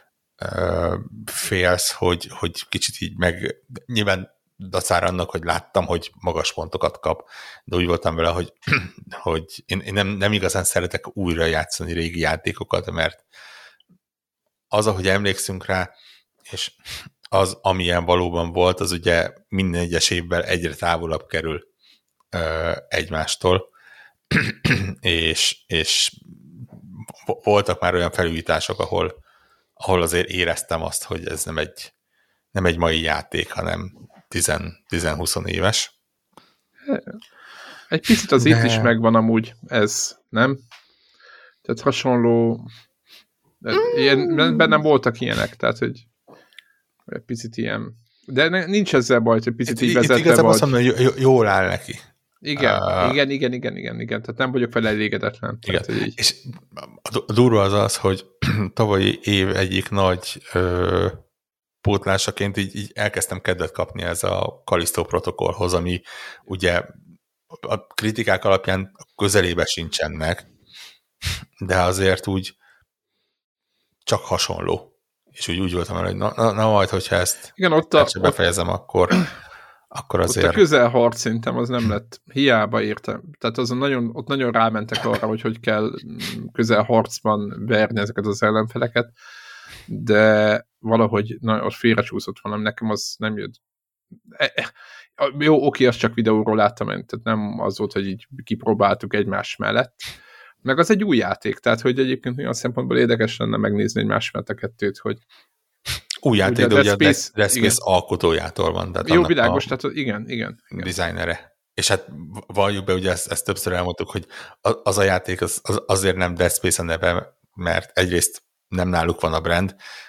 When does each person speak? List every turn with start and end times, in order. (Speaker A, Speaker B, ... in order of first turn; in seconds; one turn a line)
Speaker A: 0.4-13.2
Speaker A: 14.7-15.9
Speaker A: 16.5-21.6
Speaker A: 22.3-23.7
Speaker A: 24.3-29.1
Speaker A: 29.8-31.9
Speaker A: 32.5-35.9
Speaker B: 36.9-37.2
Speaker B: 37.9-40.6
Speaker A: 38.4-38.9
Speaker B: 41.6-42.7
Speaker B: 43.6-46.1
Speaker B: 47.1-50.7
Speaker A: 49.7-53.2
Speaker B: 52.4-56.2
Speaker A: 55.7-61.2
Speaker A: 61.8-67.0
Speaker A: 67.5-70.5
Speaker A: 71.6-72.5
Speaker A: 74.1-79.3
Speaker B: 77.6-78.4
Speaker A: 79.9-80.6
Speaker B: 80.3-89.1
Speaker B: 89.9-93.6
Speaker B: 94.3-100.1
Speaker B: 100.7-105.2
Speaker A: 106.2-109.7
Speaker B: 106.4-107.8
Speaker B: 109.0-110.9
Speaker A: 110.7-119.8